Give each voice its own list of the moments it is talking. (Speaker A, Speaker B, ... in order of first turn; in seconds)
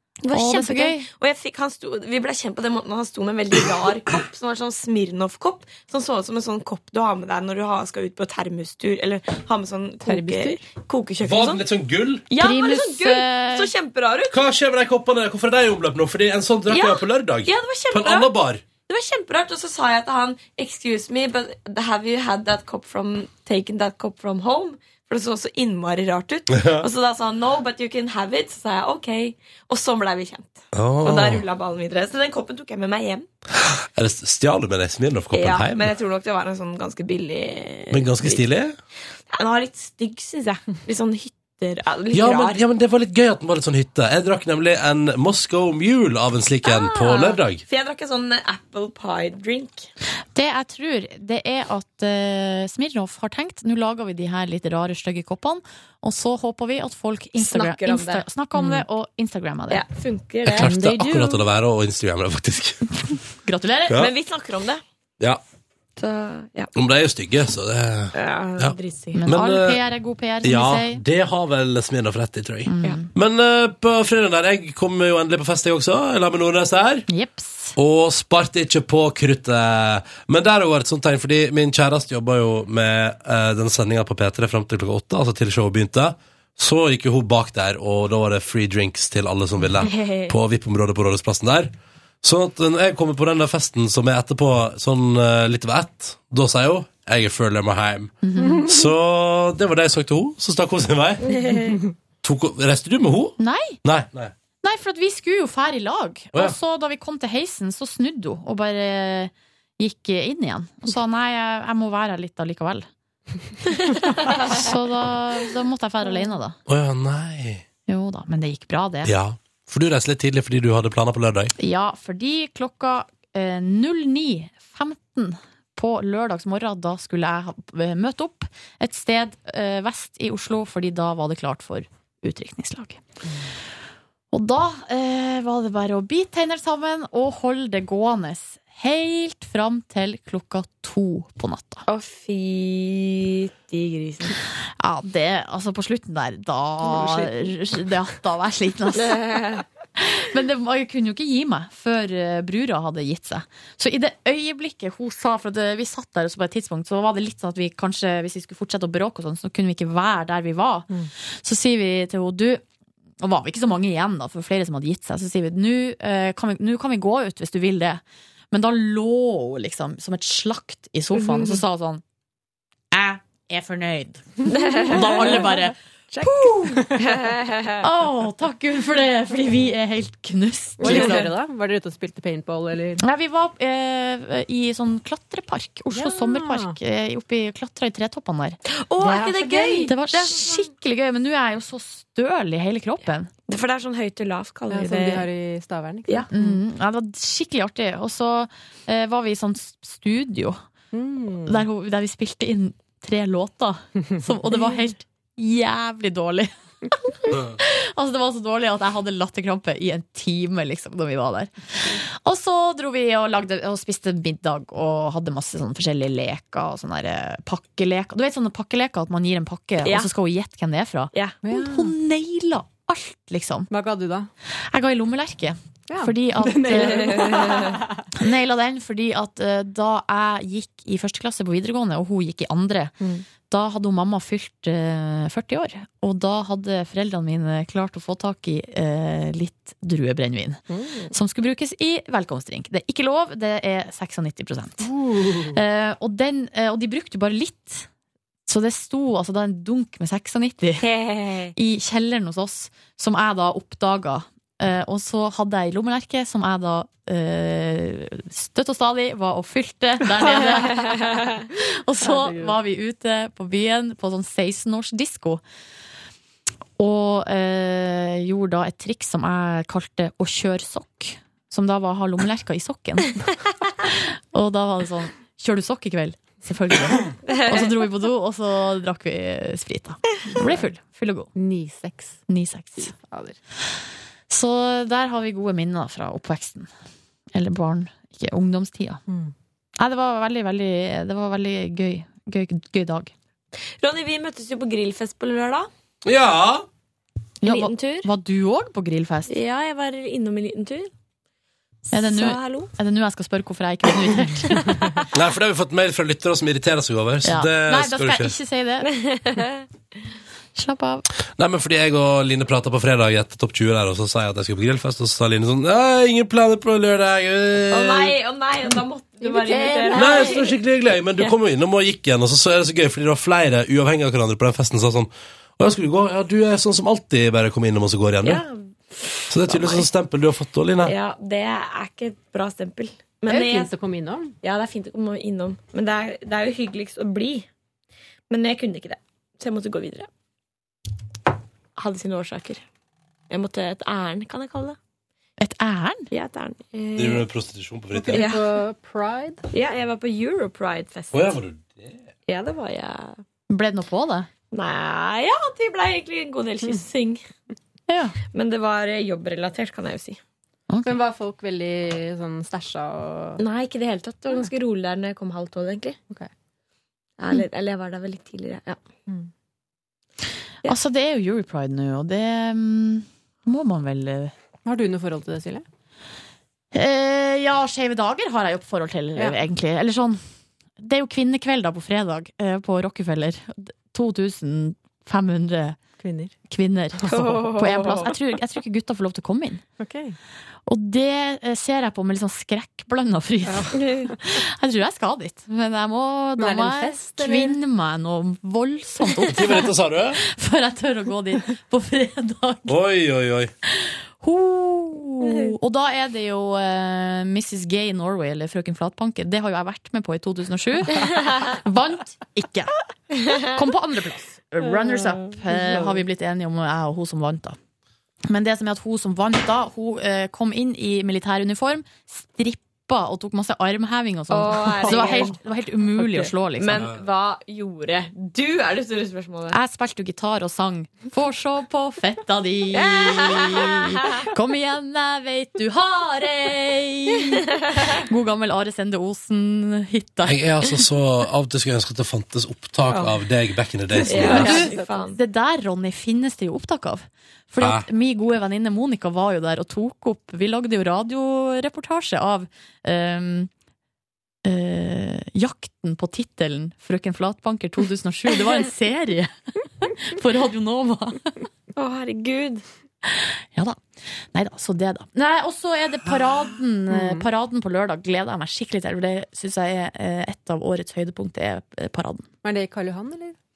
Speaker A: 0.2-11.6, 12.3-14.4, 16.7-18.3, 18.9-33.2, 35.3-38.4, 39.3-42.6, 46.6-49.9, 57.4-58.2, 59.7-60.8, 63.9-64.8, 66.0-66.7, 68.1-69.3, 89.8-90.3, 101.2-101.8, 141.9-144.4, 149.0-149.6, 171.1-171.6, 174.5-175.5, 176.1-177.8, 180.8-181.3, 188.7-190.7, 193.5-195.2, 219.8-220.1, 227.3-227.8, 250.8-251.5, 277.3-277.7, 293.8-295.7, 297.4-298.1, 299.3-300.9, 301.9-302.7, 308.9-309.6, 317.7-320.6, 328.2-329.9, 330.8-333.7, 334.4-337.5, 338.3-340.1, 341.8-342.6, 343.3-344.8, 346.1-347.2, 348.1-348.4, 349.5-351.3, 352.3-353.2, 354.5-357.2, 358.3-360.2, 363.4-366.0, 367.2-368.8, 387.1-388.1, 393.7-394.1, 424.3-425.4, 426.0-429.6, 432.7-434.2, 442.9-443.2, 444.0-445.2, 461.8-462.6
Speaker B: 0.3-1.1, 12.3-13.7, 50.3-59.9, 60.6-61.4, 63.4-64.0, 69.1-71.0, 72.7-73.1, 77.1-77.7, 98.2-98.7, 103.4-103.8, 104.6-112.8, 114.2-116.6, 117.9-119.1, 121.6-133.0, 134.3-141.8, 144.8-162.6, 163.2-172.0, 172.9-177.0, 177.8-181.2, 183.0-193.3, 196.3-200.6, 201.4-206.5, 207.1-223.7, 224.7-227.4, 228.1-232.9, 233.4-244.9, 245.5-247.9, 248.5-250.8, 251.5-265.4, 266.8-273.3, 273.8-281.3, 282.3-282.9, 284.3-286.7, 287.3-289.0, 289.8-293.1, 297.4-299.4, 301.9-304.7, 307.2-308.9, 310.5-311.1, 345.4-346.1, 353.5-354.3, 357.9-358.1, 360.7-360.9, 370.6-374.3, 376.7-380.2, 380.8-385.8, 386.5-389.6, 390.7-402.8, 403.6-412.7, 413.3-417.6, 418.2-426.9, 429.5-440.4, 444.0-453.5, 454.4-461.4, 463.1-463.8, 464.3-472.2
Speaker C: 10.0-10.7, 58.5-58.8, 146.8-147.4, 180.8-183.0, 185.9-186.8, 189.0-190.0, 194.7-196.6, 200.9-201.7, 221.4-221.9, 223.7-224.3, 225.9-228.0, 233.0-233.2, 240.7-241.1, 244.8-245.6, 262.0-262.6, 280.4-280.6, 281.3-282.2, 282.8-283.4, 289.1-289.3, 318.7-320.4, 333.3-334.3, 347.9-349.4, 360.8-363.4, 374.6-375.6, 386.0-386.3, 387.1-387.3, 389.8-390.2, 393.4-393.8, 396.4-397.6, 424.7-425.4, 444.1-444.9, 466.9-467.3, 472.4-473.4
Speaker D: 11.2-12.2, 14.3-18.6, 26.5-26.9, 30.7-31.4, 33.6-35.9, 37.9-38.8, 42.1-47.6, 60.4-62.9, 66.7-69.8, 70.4-77.1, 77.8-101.4, 102.2-104.3, 116.7-117.6, 119.0-121.5, 296.0-296.6, 305.1-308.3, 311.4-318.1, 319.9-328.4, 329.3-330.9, 346.9-348.3, 351.1-352.0, 399.3-400.2, 402.7-403.5, 440.2-444.6, 447.6-447.9